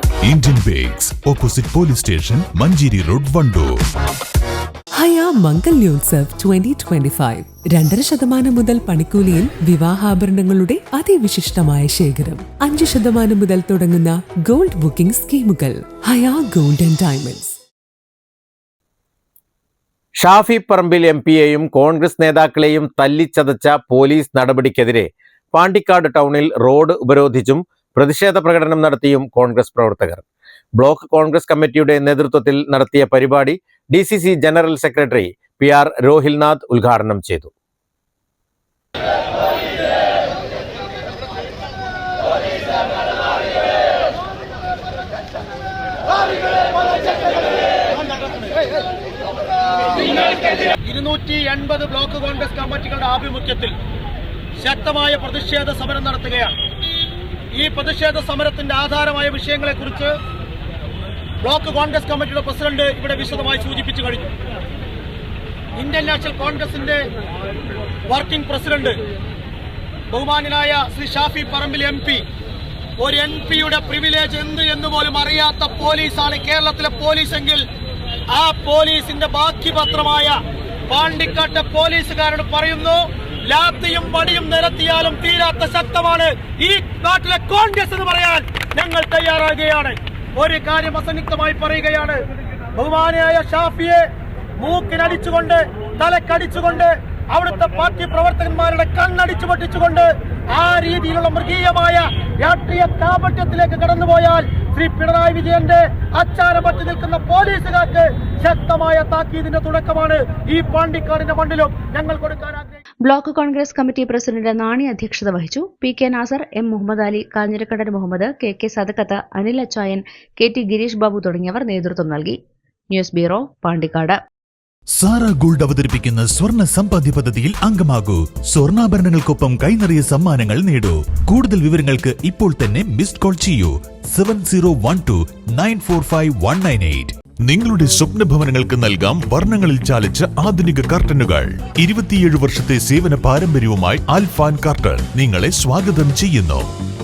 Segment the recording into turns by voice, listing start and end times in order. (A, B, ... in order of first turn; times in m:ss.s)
0:00.3-0:03.7 A
0:04.9-0:17.6 B
0:20.2-0:30.2 C
0:30.8-0:37.5 C
0:50.8-0:53.7 D
0:54.6-0:56.5 D
0:57.5-1:00.1 D
1:01.4-1:04.3 D
1:05.8-1:07.0 D
1:08.1-1:08.9 D
1:10.1-1:12.2 D
1:13.0-1:17.6 D
1:18.3-1:20.4 D
1:20.9-1:32.2 D
1:32.8-1:34.0 D
1:34.6-1:52.8 D
1:53.0-2:02.4 E
2:02.9-2:04.2 E
2:05.0-2:26.7 A